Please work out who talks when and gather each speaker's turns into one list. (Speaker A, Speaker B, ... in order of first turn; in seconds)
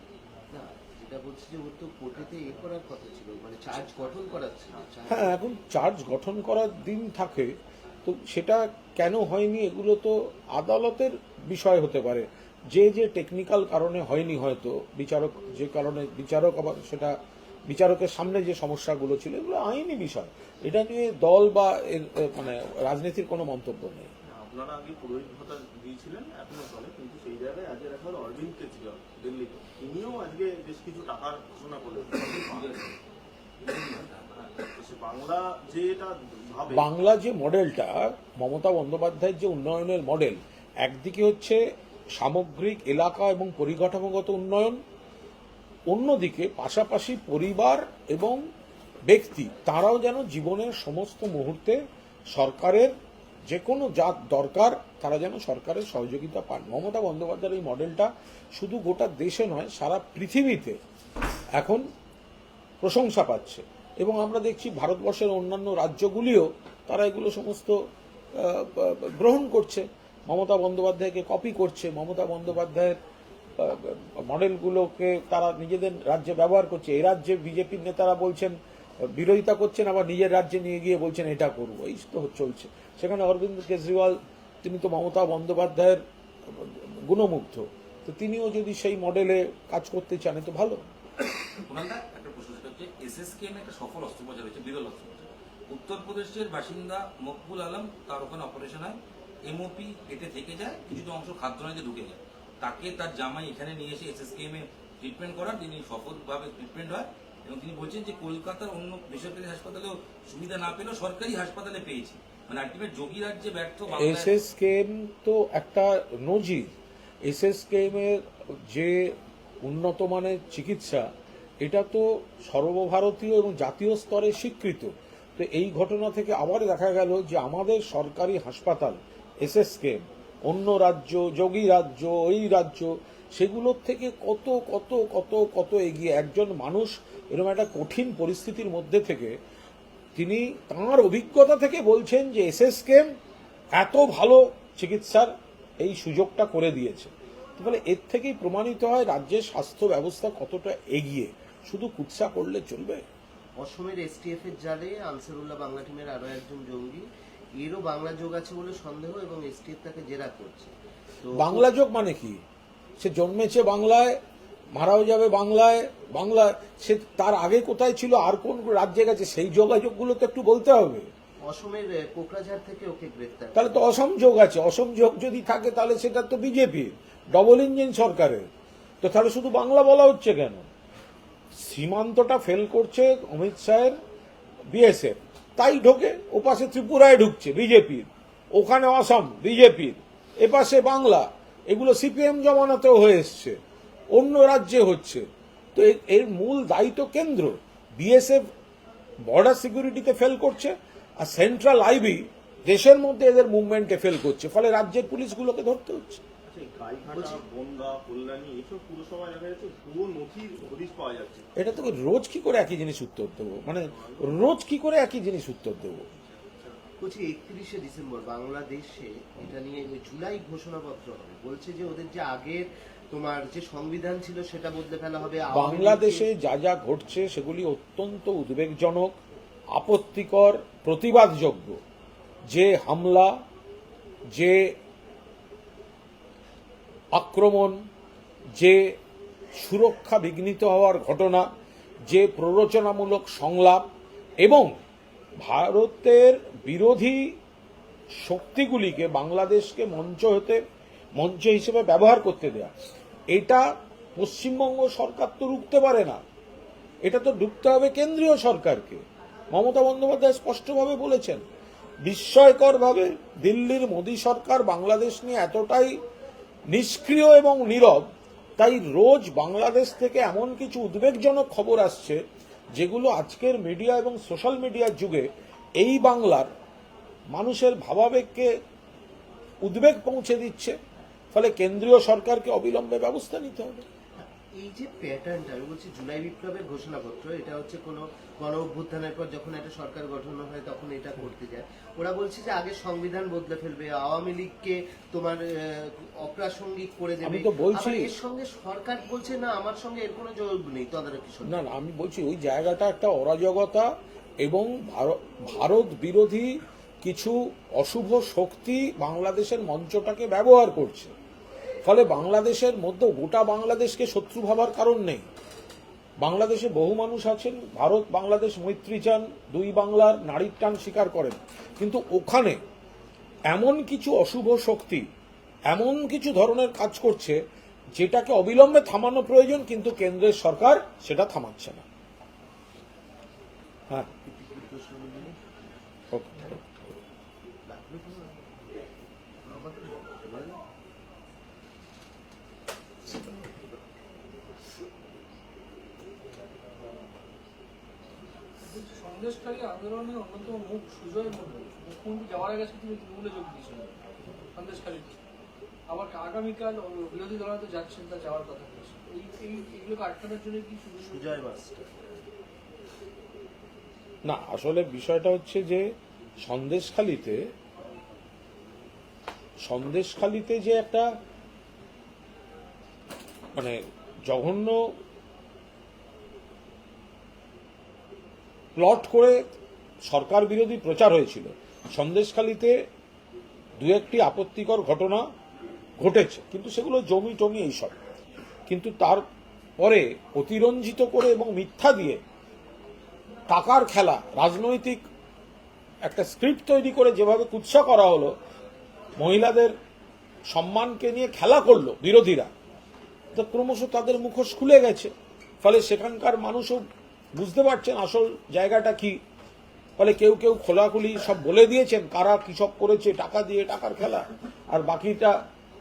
Speaker A: 0.5-5.4, 153.6-157.1, 157.6-161.7, 171.5-173.9, 207.1-207.4, 217.0-226.3, 284.2-301.6, 334.1-335.4, 337.7-338.7, 339.4-340.6, 343.1-343.7, 361.1-362.3
Speaker B: 5.1-24.1, 36.7-41.6, 42.1-44.8, 45.9-48.4, 49.1-51.8, 52.3-52.9, 53.5-60.8, 61.6-61.9, 62.8-67.8, 68.3-73.0, 73.6-90.8, 114.0-116.7, 117.2-121.1, 121.6-139.4, 140.2-143.1, 143.8-153.0, 161.3-162.4, 163.0-164.2, 164.8-171.1, 173.6-178.5, 179.0-180.6, 181.6-184.0, 184.7-193.6, 194.1-198.4, 199.3-206.2, 211.6-216.0, 225.5-229.2, 229.7-231.8, 232.5-233.4, 234.3-234.7, 237.2-237.8, 238.6-239.0, 239.6-241.5, 242.1-243.9, 244.4-244.8, 245.4-247.3, 248.2-250.6, 251.2-252.7, 253.3-256.2, 257.0-261.4, 262.0-266.0, 266.7-272.2, 272.8-276.5, 277.3-278.5, 279.6-280.8, 281.3-283.8, 297.2-298.1, 301.5-303.9, 304.4-311.1, 311.9-315.3, 316.2-322.6, 323.5-325.1, 325.7-327.4, 328.0-331.9, 336.1-336.5, 364.2-365.9, 366.4-367.4, 369.6-371.1, 373.6-374.8, 378.8-379.4, 380.1-382.8, 383.8-385.3, 386.0-388.0, 388.7-389.2, 389.8-392.2, 393.5-395.0, 396.0-398.3, 399.2-399.8, 400.5-402.5, 403.4-406.8, 407.4-409.2, 410.0-415.4
Speaker C: 24.2-32.8, 34.7-36.9, 206.4-211.5, 213.9-214.4, 216.2-216.8
Speaker D: 32.1-33.0, 33.6-34.6, 91.6-114.3
Speaker E: 348.6-354.0, 354.5-355.2, 355.9-361.4